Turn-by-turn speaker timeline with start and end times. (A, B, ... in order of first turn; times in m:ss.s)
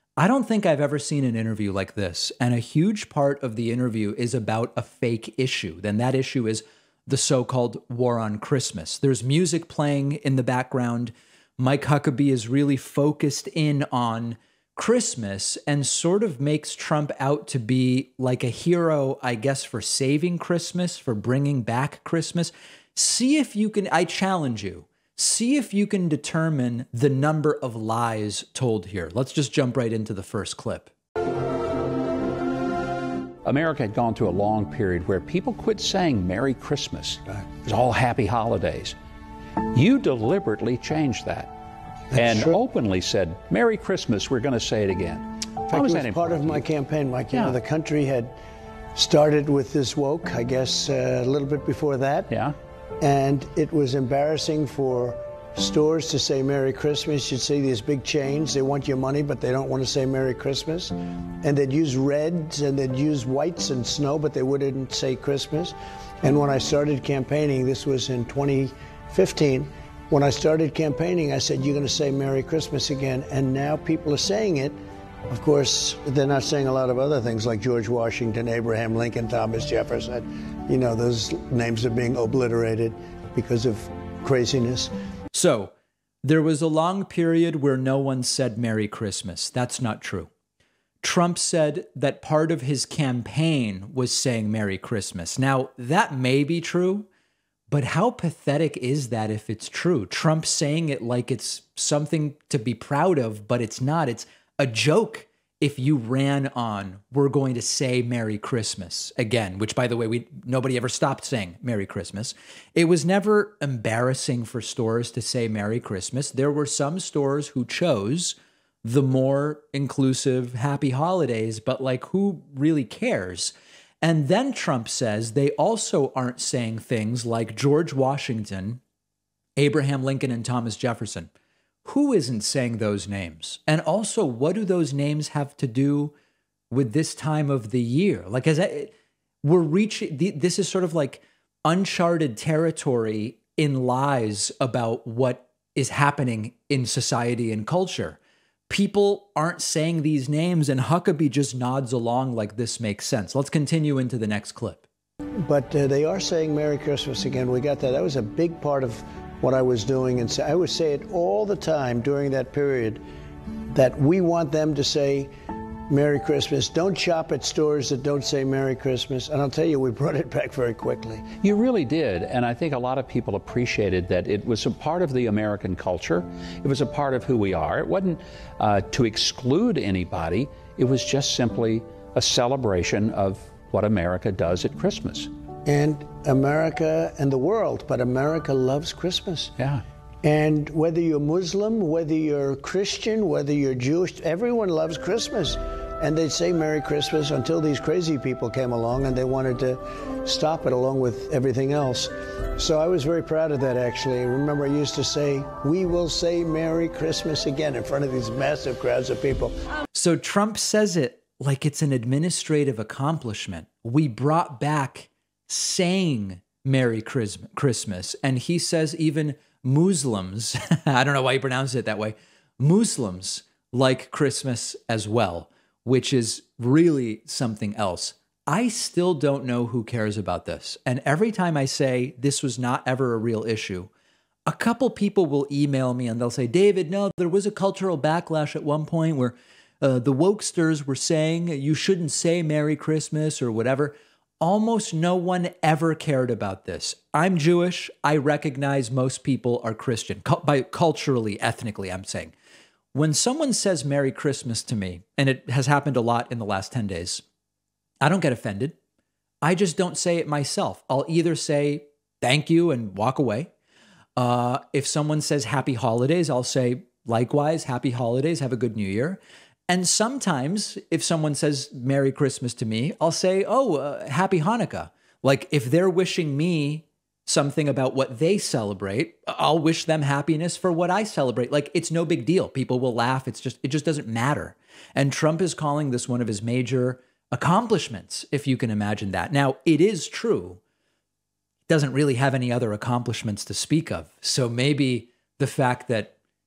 0:00.2-0:30.9 A
0:33.4-0:39.0 B
0:39.7-0:41.5 B
0:42.1-0:46.6 B
0:45.7-0:48.3 C
0:49.0-0:52.3 C
0:52.3-0:52.6 B
0:53.0-1:14.8 C
1:15.3-1:24.9 C
1:25.3-1:30.3 A
1:31.0-1:37.1 A
1:37.7-2:08.8 A
2:09.6-2:11.3 A
2:11.8-2:16.1 A
2:16.7-2:34.8 A
2:35.4-2:43.0 C
2:43.7-2:45.3 C
2:45.9-2:51.3 C
2:51.4-3:05.3 B
3:05.6-3:09.5 C
3:09.6-3:09.8 B
3:10.2-3:29.5 C
3:29.9-3:53.9 A
3:54.5-4:12.3 A
4:12.9-4:17.2 A
4:18.0-4:18.8 A
4:19.4-4:23.5 A
4:24.2-4:50.6 A
4:51.7-4:56.1 A